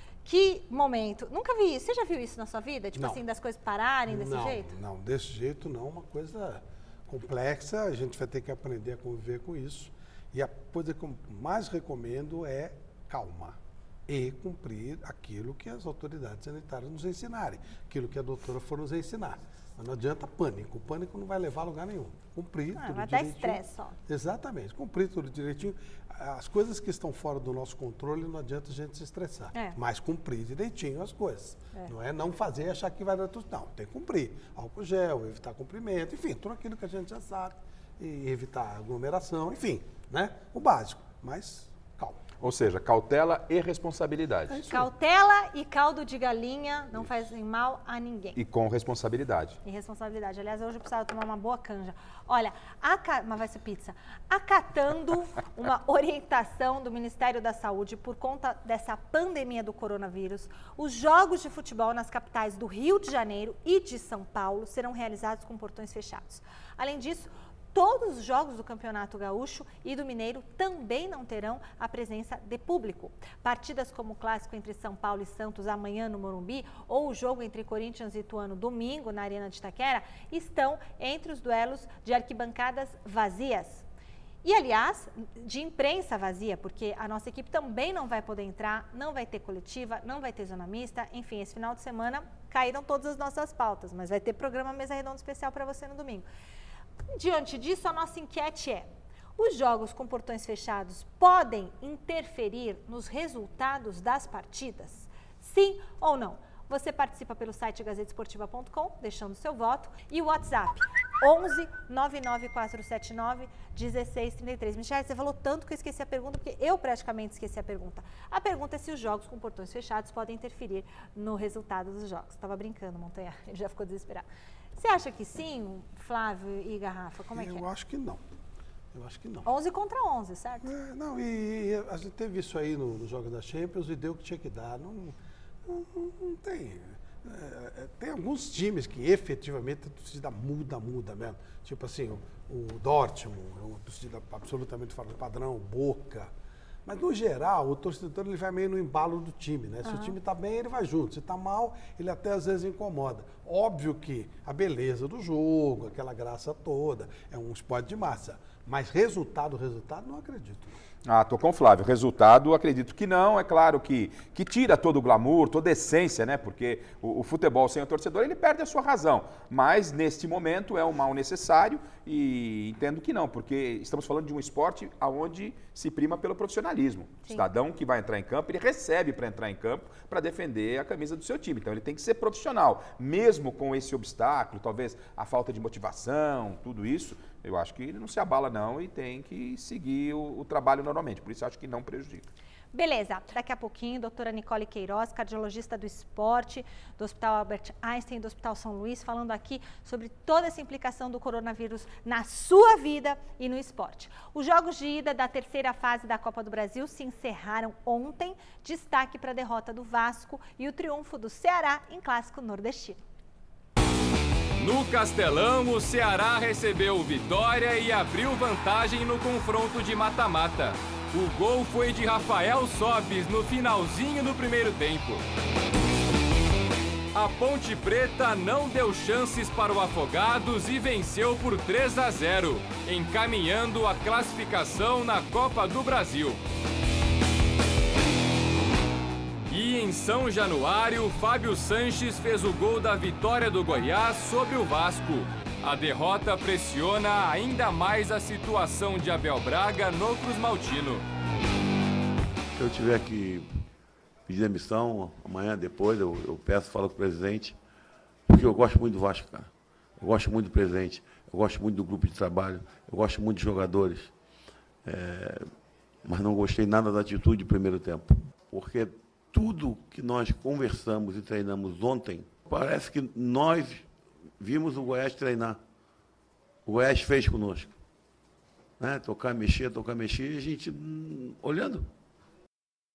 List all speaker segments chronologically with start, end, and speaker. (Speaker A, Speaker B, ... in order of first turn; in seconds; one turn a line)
Speaker A: 0.2-4.7
Speaker B: 3.0-3.2
Speaker B: 4.1-42.2
Speaker A: 22.8-24.0
Speaker C: 42.4-44.6
Speaker B: 44.5-44.9
Speaker A: 44.7-48.4
Speaker C: 48.4-49.6
Speaker A: 49.6-83.8
Speaker A: 84.4-96.3
Speaker A: 97.1-98.9
Speaker A: 99.4-127.7
Speaker B: 127.3-128.2
Speaker B: 128.9-129.5
Speaker A: 129.4-130.7
Speaker B: 130.6-135.2
Speaker B: 135.7-146.3
Speaker B: 146.9-160.8
Speaker A: 149.8-150.2
Speaker C: 161.1-192.3
Speaker A: 192.7-213.0
Speaker D: 214.6-225.2
Speaker D: 227.1-236.4
Speaker D: 239.5-251.0
Speaker E: 252.5-253.5
Speaker E: 254.3-257.6
Speaker E: 258.3-264.1
Speaker E: 264.8-265.5
Speaker E: 266.0-273.9
Speaker E: 274.4-275.6
Speaker E: 276.7-277.7
Speaker E: 278.8-281.9